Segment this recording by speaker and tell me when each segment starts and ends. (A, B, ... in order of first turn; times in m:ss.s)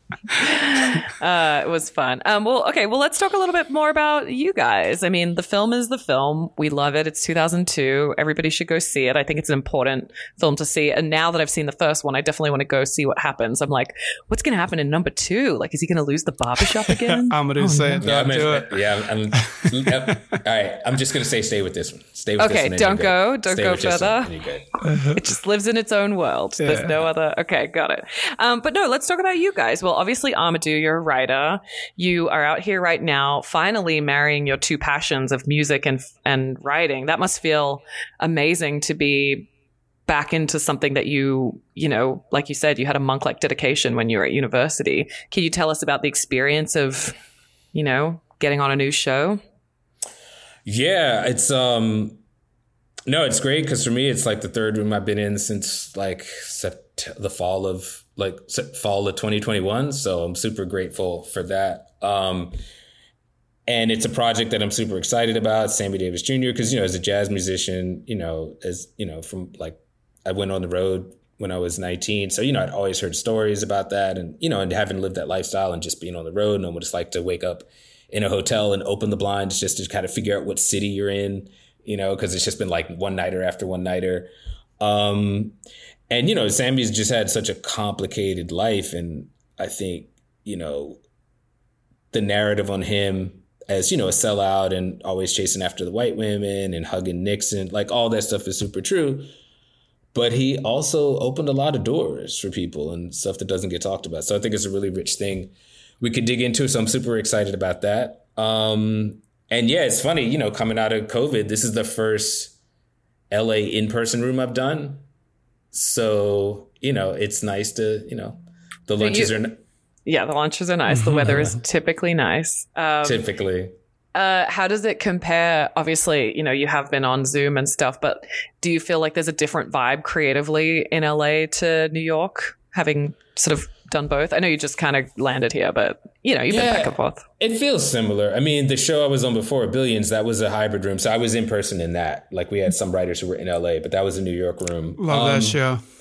0:00.3-0:18.0 A
0:17.1-0:18.9 B
0:18.0-0:24.7 C
0:19.6-0:20.2 B
0:22.4-0:24.3 A
0:24.9-0:25.2 B
0:24.9-0:39.5 A
0:26.6-0:26.9 B
0:40.1-0:47.1 A
0:47.7-0:49.4 A
0:50.6-0:52.2 C
0:53.1-1:02.6 C
1:03.7-1:25.6 C
1:26.1-1:31.0 C
1:32.1-1:39.3 C
1:40.1-1:52.5 C
1:53.3-1:55.0 C
1:55.7-1:59.6 C
1:59.0-1:59.3 A
2:00.0-2:03.2 A
2:00.9-2:01.5 B
2:03.0-2:03.7 C
2:04.1-2:17.2 A
2:16.5-2:25.6 C
2:25.0-2:25.8 B